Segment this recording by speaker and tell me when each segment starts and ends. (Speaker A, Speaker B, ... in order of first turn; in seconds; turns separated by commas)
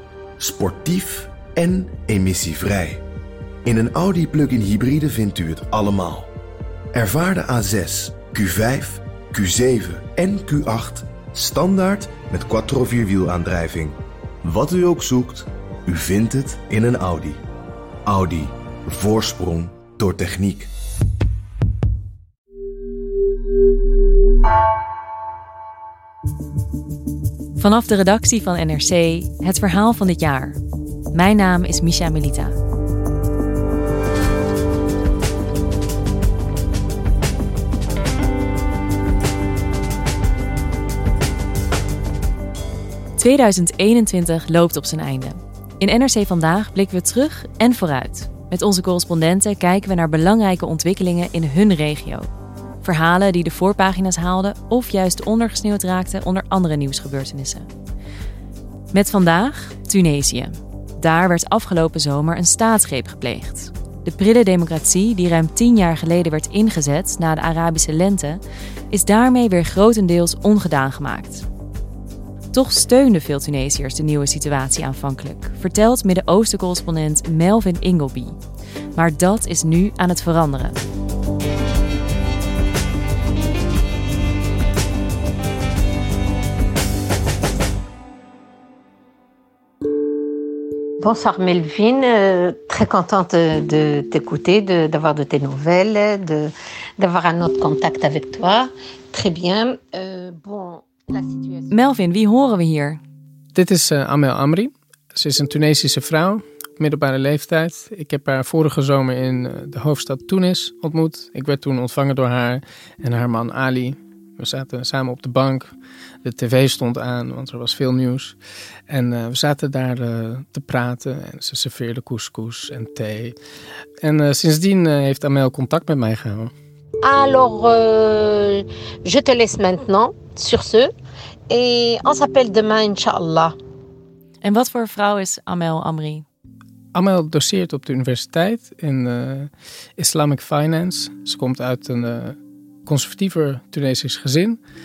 Speaker A: 0.4-3.0, Speaker A: 3.6-6.3, Speaker A: 6.9-17.4, Speaker A: 18.1-20.7, Speaker B: 27.6-30.6, Speaker B: 31.1-32.6, Speaker B: 43.2-52.3, Speaker B: 52.8-57.7, Speaker B: 58.9-71.5, Speaker B: 72.5-78.4, Speaker B: 79.0-80.8, Speaker C: 91.0-101.7, Speaker B: 101.7-103.0, Speaker D: 103.5-118.4, Speaker D: 118.9-123.3, Speaker D: 124.0-126.5, Speaker C: 127.0-130.9, Speaker C: 131.5-133.5, Speaker B: 134.4-136.2, Speaker D: 136.9-144.6